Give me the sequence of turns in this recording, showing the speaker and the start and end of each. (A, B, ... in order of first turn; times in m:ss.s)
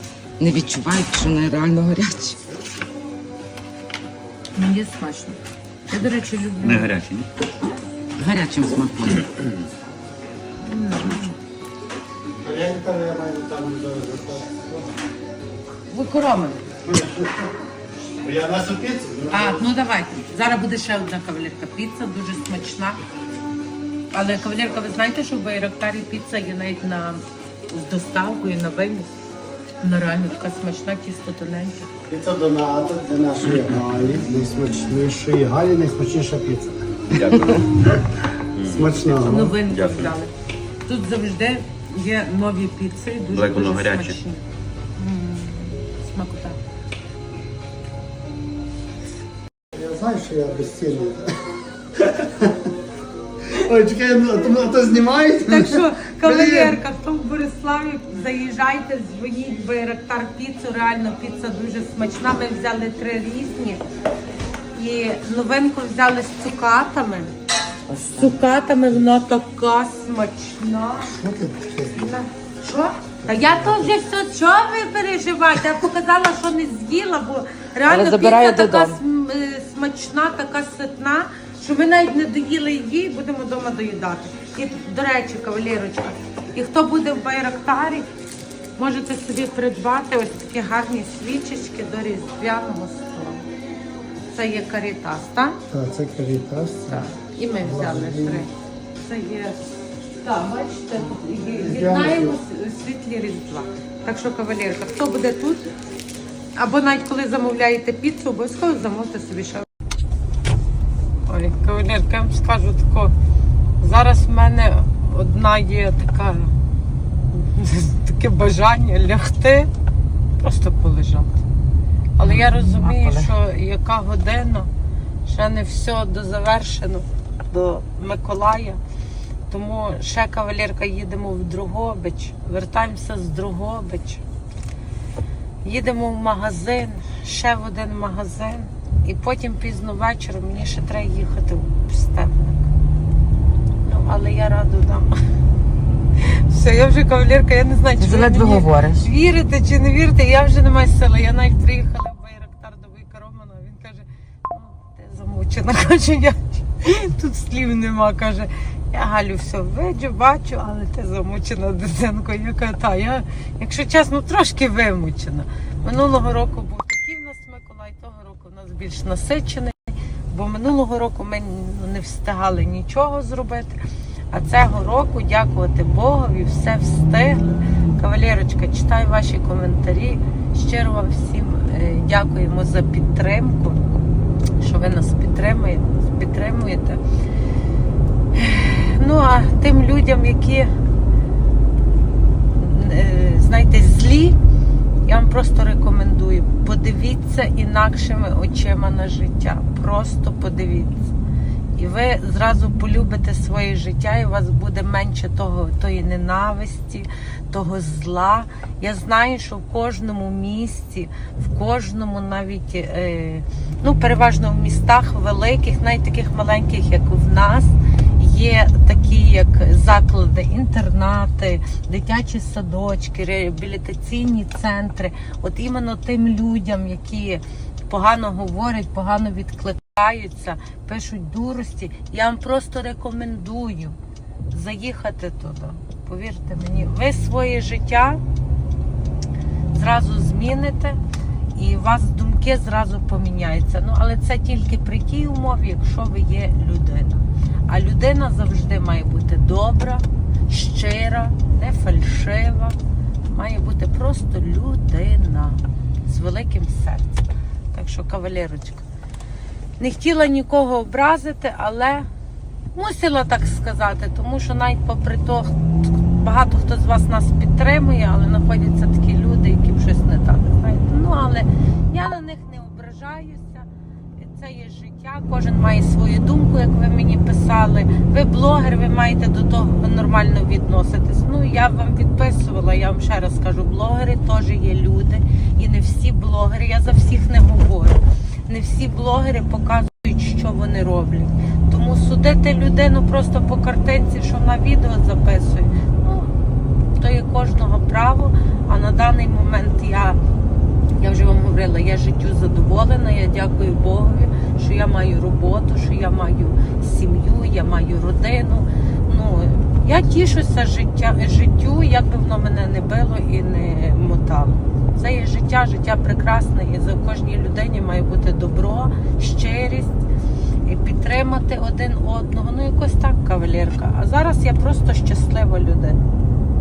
0:00.4-0:02.4 A
0:04.6-0:06.9 B
0:06.6-0:07.3 C
0:08.2-0:09.2 A
0:10.6-0:11.3 B
0:12.4-0:14.9 D
0:15.9-0:16.6 B
0:16.9-0:17.4 D
0:18.2-0:19.6 D
0:19.3-0:23.0 B
0:24.1-0:29.1 B
0:29.8-0:31.9 B
0:32.1-0:37.0 D
0:37.1-0:37.8 C
0:38.6-0:40.2 C
0:38.7-0:39.6 D
0:39.2-0:40.3 B
0:40.9-0:44.4 B
0:43.3-0:44.2 C
0:45.0-0:46.6 B
0:49.7-0:51.2 D
0:52.0-0:52.6 D
0:53.5-0:56.8 D
0:55.4-1:03.8 B
1:04.7-1:07.3 B
1:07.9-1:08.2 A
1:08.1-1:11.2 B
1:11.0-1:12.2 D
1:11.9-1:28.1 B
1:13.4-1:13.8 D
1:17.9-1:19.0 A
1:28.8-1:33.4 B
1:34.3-1:35.6 B
1:35.7-1:37.1 D
1:36.9-1:39.6 B
1:37.6-1:38.5 D
1:40.2-1:45.7 B
1:41.6-1:42.4 D
1:46.6-1:49.7 B
1:51.3-1:53.1 B
1:53.8-1:56.6 B
1:57.3-1:59.7 B
2:00.4-2:01.4 B
2:02.2-2:04.7 B
2:02.2-2:03.2 A
2:05.2-2:08.8 B
2:09.5-2:14.2 B
2:15.6-2:22.6 B
2:23.8-2:25.2 B
2:26.2-2:53.8 B
2:28.0-2:29.0 A
2:54.3-3:03.9 B
3:04.6-3:07.0 B
3:08.3-3:10.7 B
3:12.6-3:14.4 B
3:15.0-3:21.1 B
3:21.8-3:54.0 B
3:54.5-3:58.2 B
3:59.7-4:01.0 B
4:01.6-4:18.8 B
4:19.8-4:22.1 B
4:22.8-4:56.3 B
4:57.0-5:00.2 B
5:01.0-5:20.0 B
5:20.6-5:26.0 B